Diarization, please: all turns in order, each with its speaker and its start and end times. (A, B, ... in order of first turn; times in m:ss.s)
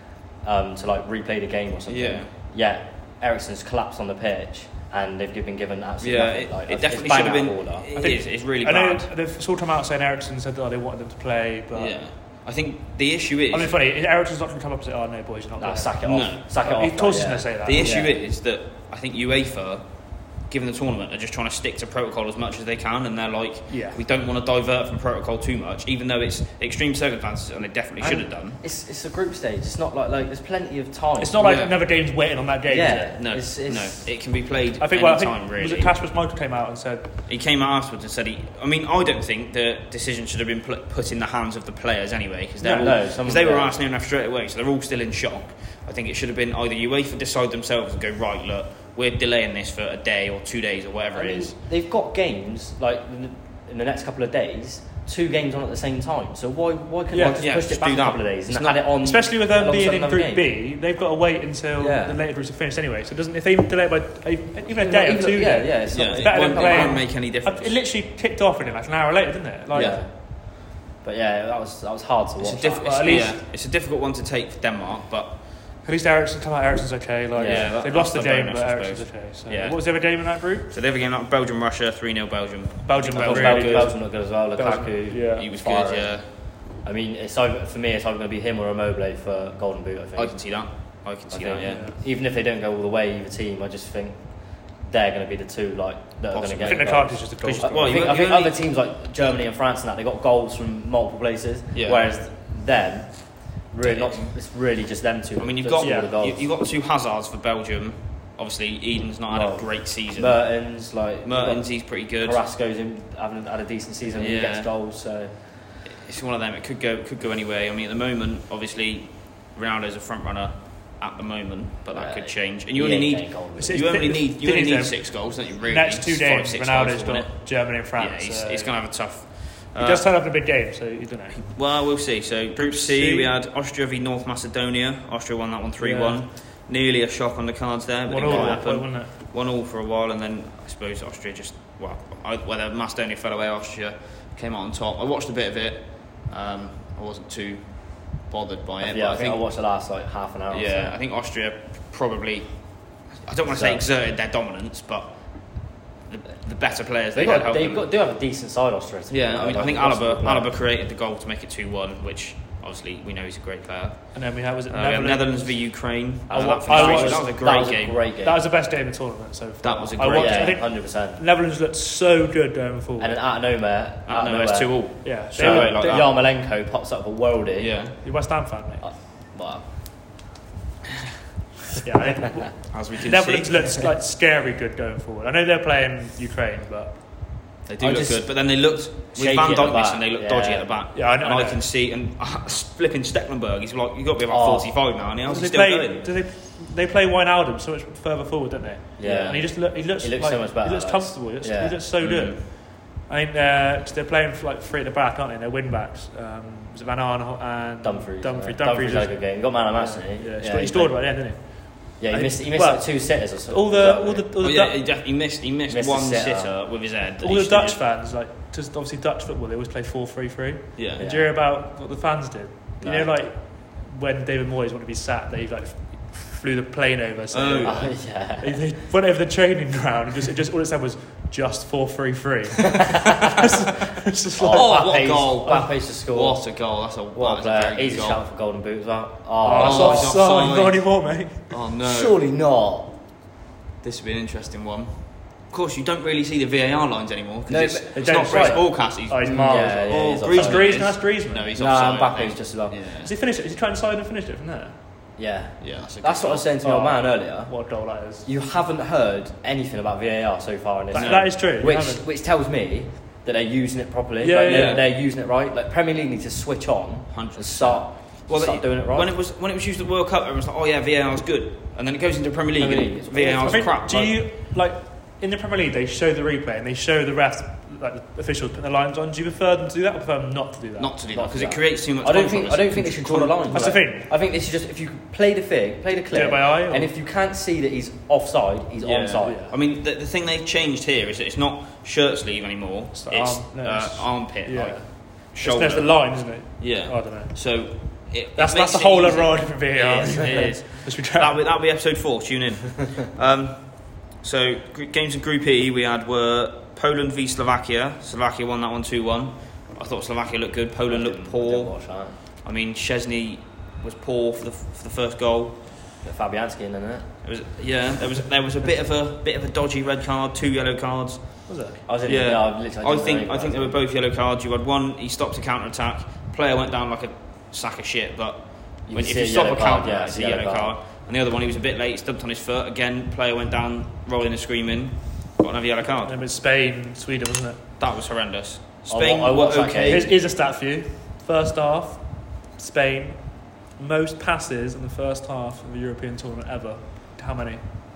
0:00.4-0:07.9 A
0:01.9-0:02.3 B
0:06.0-0:09.1 B
0:08.0-0:12.0 C
0:11.7-0:13.7 B
0:13.5-0:17.9 C
0:15.6-0:18.2 A
0:16.0-0:16.4 B
0:17.6-0:28.6 B
0:23.7-0:24.0 C
0:28.0-0:31.6 A
0:31.2-0:33.1 C
0:31.4-0:31.8 B
0:32.7-0:34.1 A
0:33.1-0:35.9 B
0:34.8-0:37.1 C
0:37.3-0:51.6 B
0:42.6-0:42.9 C
0:42.8-0:43.7 A
0:51.1-1:00.5 A
0:57.1-0:57.4 C
0:57.2-0:58.8 B
0:59.0-1:10.0 C
1:01.8-1:02.2 A
1:04.8-1:07.0 A
1:05.9-1:07.8 B
1:09.7-1:10.0 B
1:09.7-1:13.3 A
1:12.4-1:15.4 B
1:12.8-1:13.4 C
1:15.8-1:20.7 C
1:17.3-1:17.7 A
1:17.4-1:23.9 B
1:22.8-1:25.5 C
1:23.1-1:30.6 A
1:25.3-1:26.3 B
1:30.2-1:31.9 B
1:31.3-1:46.4 A
1:31.6-1:32.0 C
1:36.3-1:38.6 B
1:36.6-1:38.0 C
1:41.8-1:42.0 B
1:43.8-1:44.3 B
1:45.4-1:50.7 B
1:45.8-1:46.1 C
1:49.3-1:55.4 A
1:51.2-1:52.4 B
1:54.2-1:54.7 B
1:55.9-2:10.1 B
2:01.9-2:03.9 A
2:03.6-2:08.7 C
2:09.8-2:11.6 C
2:11.4-2:29.4 B
2:12.6-2:13.3 C
2:15.8-2:16.2 C
2:18.1-2:19.1 C
2:18.2-2:18.6 A
2:28.8-2:31.0 A
2:30.5-2:37.9 B
2:33.5-2:33.8 A
2:37.2-2:40.6 A
2:39.1-2:48.0 B
2:44.1-2:47.6 C
2:46.3-2:48.4 A
2:48.2-2:53.2 C
2:49.6-2:50.6 B
2:50.1-2:51.2 A
2:53.0-2:58.0 A
2:54.1-2:56.2 B
2:55.0-2:56.0 C
2:57.6-2:58.0 B
2:58.0-2:58.9 C
2:58.8-2:59.7 A
3:01.8-3:07.0 C
3:02.7-3:03.8 B
3:07.7-3:16.1 B
3:07.8-3:08.4 A
3:09.1-3:10.8 A
3:10.9-3:11.6 C
3:14.3-3:14.8 A
3:15.2-3:34.8 C
3:19.0-3:21.8 A
3:19.0-3:19.4 B
3:22.0-3:22.4 B
3:27.8-3:34.3 A
3:34.4-3:37.8 B
3:35.7-3:36.5 A
3:37.2-3:54.9 C
3:40.8-3:41.0 B
3:41.0-3:41.3 A
3:42.8-3:43.1 A
3:47.3-3:47.9 B
3:47.6-3:48.6 A
3:54.4-4:00.2 A
3:54.5-3:58.2 B
3:59.4-4:01.5 C
3:59.5-4:02.2 B
4:01.8-4:03.0 A
4:03.8-4:13.1 B
4:07.5-4:11.0 A
4:07.9-4:11.5 C
4:11.6-4:12.8 A
4:13.0-4:14.8 C
4:15.2-4:17.6 A
4:15.6-4:16.5 B
4:16.6-4:18.3 C
4:18.2-4:29.1 A
4:20.9-4:22.0 C
4:20.9-4:21.3 B
4:24.2-4:24.8 C
4:24.5-4:24.8 B
4:27.1-4:34.2 B
4:32.6-4:33.7 A
4:33.3-4:40.9 C
4:40.8-4:43.8 B
4:41.1-4:49.5 A
4:43.5-4:44.1 C
4:46.1-4:46.9 C
4:48.8-5:15.6 B
4:49.2-4:49.5 C
4:52.9-4:57.4 C
4:58.4-5:01.4 C
5:10.9-5:12.2 A
5:16.0-5:17.1 A
5:17.2-5:21.6 B
5:21.5-5:21.8 C
5:21.9-5:23.8 A
5:22.1-5:36.2 B
5:28.9-5:30.7 A
5:36.0-5:37.6 C
5:37.8-5:40.1 B
5:38.9-5:40.1 A
5:39.9-5:47.8 C